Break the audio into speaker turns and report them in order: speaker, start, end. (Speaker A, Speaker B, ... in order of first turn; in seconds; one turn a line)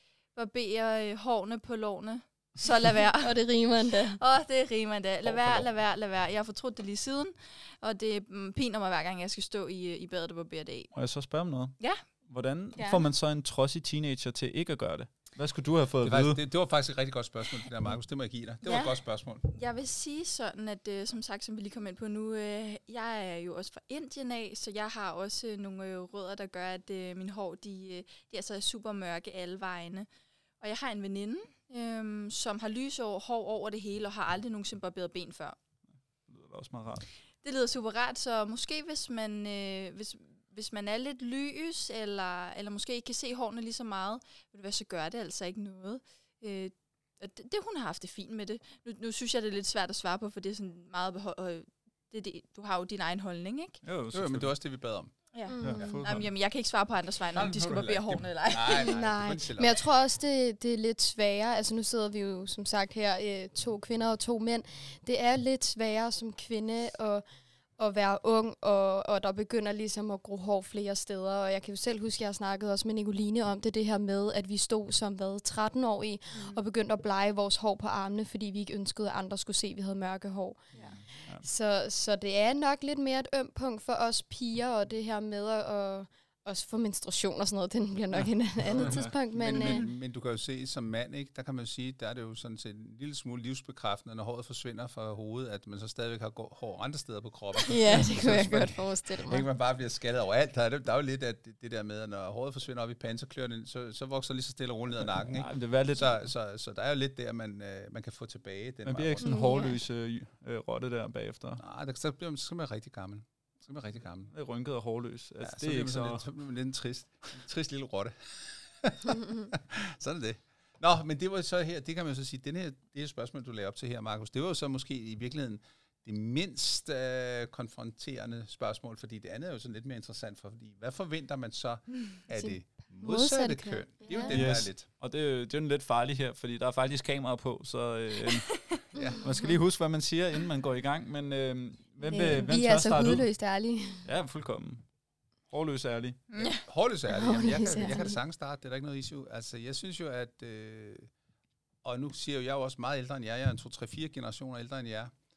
Speaker A: 0.3-3.4
Speaker B: 3.2-4.2
Speaker A: 4.1-10.9
Speaker C: 5.3-5.6
Speaker D: 5.4-5.6
Speaker C: 10.9-11.8
Speaker C: 12.3-16.4
Speaker B: 12.8-13.0
Speaker D: 16.0-19.4
Speaker A: 18.6-30.1
Speaker A: 30.6-35.6
Speaker C: 36.3-37.1
Speaker A: 37.4-53.8
Speaker C: 53.8-54.5
Speaker D: 54.1-55.1
Speaker A: 55.3-59.0
Speaker B: 55.5-56.0
Speaker C: 55.6-56.3
Speaker D: 57.3-59.8
Speaker B: 58.7-67.2
Speaker B: 67.8-89.9
Speaker A: 76.3-76.6
Speaker C: 88.7-89.1
Speaker D: 88.7-109.6
Speaker A: 89.6-89.9
Speaker B: 97.6-99.5
Speaker C: 105.0-106.2
Speaker C: 108.8-111.6
Speaker B: 109.2-109.8
Speaker D: 111.6-114.3
Speaker C: 114.3-116.2
Speaker D: 115.4-134.9
Speaker B: 132.4-134.4
Speaker C: 134.3-138.6
Speaker D: 138.9-139.3
Speaker C: 139.2-143.3
Speaker B: 142.0-144.0
Speaker C: 144.1-144.8
Speaker C: 145.5-146.5
Speaker A: 146.3-146.6
Speaker D: 146.6-151.1
Speaker B: 147.1-148.2
Speaker D: 151.8-155.1